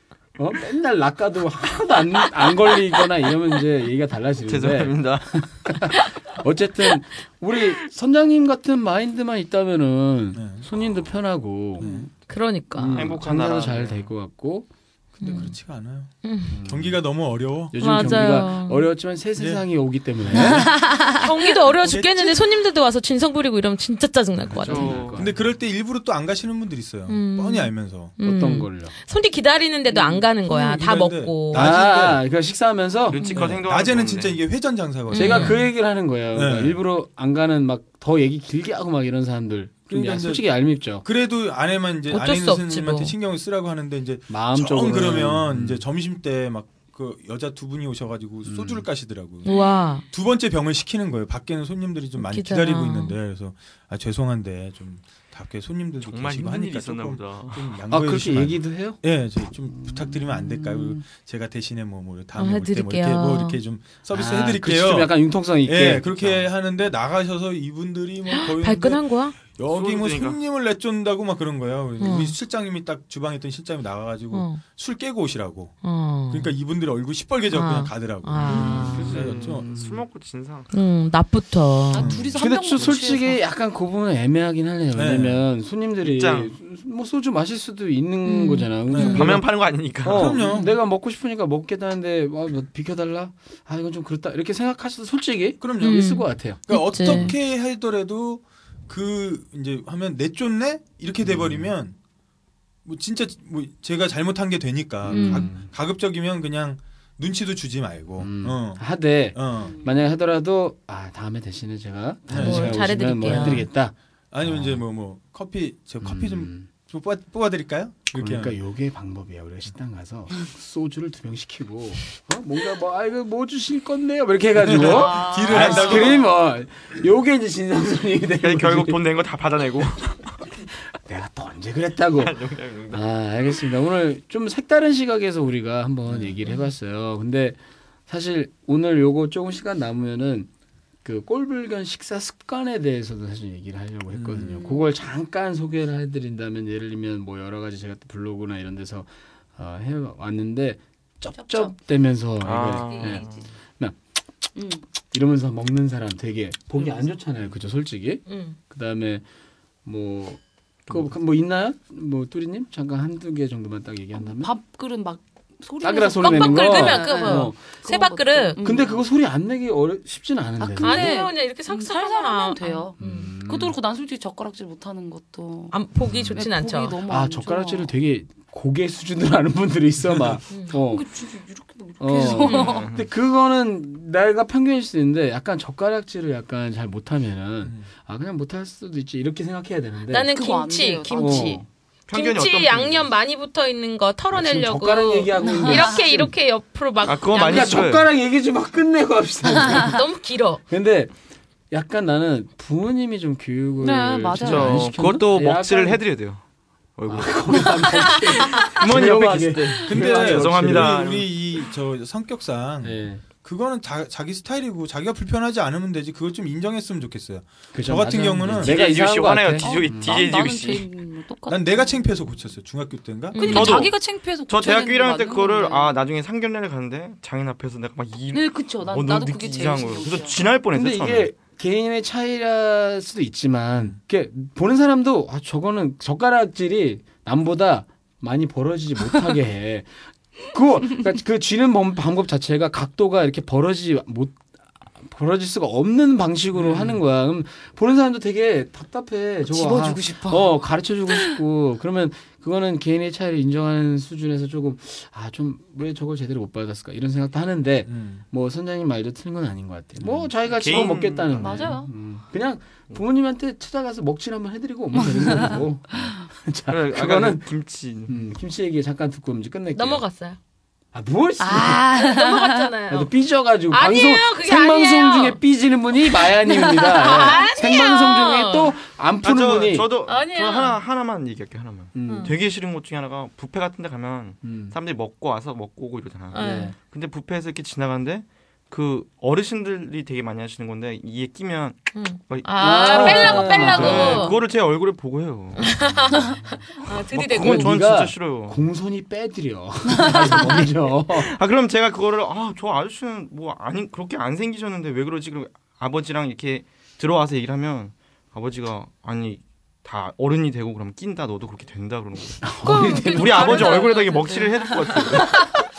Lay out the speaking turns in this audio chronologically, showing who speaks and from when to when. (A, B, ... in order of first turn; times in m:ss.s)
0:00.4-0:11.9 A
0:04.5-0:06.1 B
0:10.3-0:10.6 C
0:11.8-0:12.1 C
0:12.2-0:13.1 D
0:12.7-0:14.7 A
0:12.9-0:14.1 B
0:15.2-0:16.1 C
0:15.2-0:15.6 D
0:16.2-0:16.6 D
0:16.5-0:17.0 A
0:16.6-0:18.1 C
0:17.7-0:20.7 A
0:17.8-0:18.9 D
0:19.4-0:19.6 C
0:20.5-0:21.5 E
0:21.1-0:25.1 D
0:21.8-0:22.5 C
0:24.5-0:25.5 A
0:24.5-0:28.1 C
0:24.5-0:25.3 B
0:27.1-0:31.7 D
0:28.2-0:29.0 A
0:29.9-0:30.2 E
0:30.4-0:32.2 C
0:31.5-0:33.2 A
0:33.1-0:34.4 B
0:33.2-0:33.6 D
0:33.3-0:35.6 C
0:35.1-0:35.6 D
0:35.1-0:41.0 A
0:36.3-0:36.8 C
0:39.9-0:40.4 C
0:41.0-0:49.5 C
0:42.1-0:43.1 D
0:44.3-0:45.8 A
0:48.4-0:48.9 A
0:49.4-0:50.0 D
0:50.1-1:15.8 C
0:52.2-0:53.2 D
0:56.0-0:57.8 B
0:57.9-1:01.0 A
1:02.3-1:03.6 D
1:04.1-1:06.4 A
1:08.3-1:09.4 D
1:09.7-1:10.4 B
1:12.0-1:12.3 D
1:14.3-1:14.6 D
1:15.8-1:16.5 D
1:16.3-1:19.7 C
1:17.5-1:19.3 D
1:18.4-1:20.7 B
1:18.5-1:20.0 A
1:20.7-1:22.1 D
1:21.9-1:23.4 E
1:21.9-1:22.3 C
1:22.3-1:36.6 A
1:24.9-1:25.4 C
1:26.0-1:26.6 B
1:28.2-1:29.2 D
1:28.9-1:29.2 C
1:29.0-1:30.3 B
1:30.1-1:30.7 C
1:30.4-1:30.7 E
1:35.6-1:36.0 C
1:35.8-1:37.3 D
1:36.7-1:42.0 C
1:41.2-1:41.7 A
1:42.8-1:49.7 C
1:45.0-1:45.7 A
1:45.1-1:45.5 D
1:48.2-1:54.8 A
1:49.5-1:50.0 E
1:52.3-1:53.6 C
1:52.3-1:53.7 D
1:54.3-1:58.6 C
1:56.0-1:56.7 A
1:58.1-2:09.0 A
2:04.6-2:06.2 C
2:04.7-2:06.3 E
2:08.4-2:10.4 B
2:11.0-2:12.4 A
2:12.2-2:13.1 B
2:12.9-2:20.5 A
2:16.0-2:16.4 C
2:21.0-2:33.2 A
2:24.1-2:24.6 C
2:24.5-2:25.0 E
2:31.3-2:31.8 E
2:32.4-2:33.5 B
2:32.9-2:33.5 E
2:34.5-2:34.8 E
2:35.1-2:39.2 A
2:36.8-2:37.2 E
2:38.3-2:38.6 D
2:39.8-2:44.5 A
2:44.2-2:49.0 E
2:45.8-2:47.6 A
2:46.2-2:48.8 D
2:48.6-2:51.3 A
2:50.6-2:55.8 E
2:50.8-2:53.4 D
2:53.0-2:53.7 A
2:55.7-2:57.0 D
2:56.3-2:57.9 E
2:57.1-3:01.0 A
3:00.0-3:00.4 C
3:00.5-3:00.8 D
3:00.8-3:02.8 E
3:02.0-3:10.3 A
3:02.4-3:02.8 D
3:02.5-3:03.1 B
3:07.6-3:07.9 C
3:10.1-3:17.9 D
3:10.3-3:11.6 E
3:11.1-3:11.6 A
3:12.1-3:13.1 B
3:14.3-3:16.3 A
3:15.3-3:16.1 E
3:17.0-3:18.1 B
3:17.3-3:20.0 A
3:19.6-3:19.8 E
3:19.7-3:20.6 D
3:20.7-3:21.1 A
3:21.7-3:26.0 A
3:23.8-3:24.8 E
3:24.4-3:26.4 B
3:27.0-3:31.3 B
3:27.1-3:31.0 A
3:29.8-3:38.8 C
3:32.8-3:33.2 A
3:37.7-3:40.3 A
3:38.6-3:40.9 B
3:39.6-3:41.9 E
3:41.5-3:43.4 C
3:43.3-3:43.8 D
3:43.4-3:46.0 E
3:43.4-3:51.3 B
3:48.3-3:50.4 E
3:50.7-3:59.9 A
4:00.5-4:04.4 A
4:05.0-4:27.5 A
4:06.6-4:06.9 C
4:09.5-4:10.6 E
4:17.8-4:18.2 C
4:20.0-4:20.3 C
4:20.5-4:21.7 B
4:20.7-4:21.9 E
4:25.0-4:26.0 E
4:26.7-4:28.2 B
4:28.1-4:30.0 A
4:29.7-4:30.4 D
4:30.9-4:31.8 A
4:31.4-4:32.7 E
4:31.9-4:33.1 D
4:32.9-4:39.9 A
4:33.7-4:35.4 D
4:36.8-4:38.8 D
4:39.2-4:55.8 B
4:40.0-4:40.8 D
4:41.9-4:42.3 A
4:42.0-4:42.3 D
4:44.4-4:44.7 A
4:46.3-4:46.7 D
4:46.4-4:46.7 A
4:51.9-4:54.4 D
4:52.6-4:54.3 A
4:55.6-4:57.8 D
4:55.6-4:56.6 A
4:56.9-4:58.6 B
4:57.4-5:01.3 A
5:01.0-5:15.4 B
5:12.4-5:13.8 A
5:12.6-5:14.4 D
5:12.8-5:14.6 E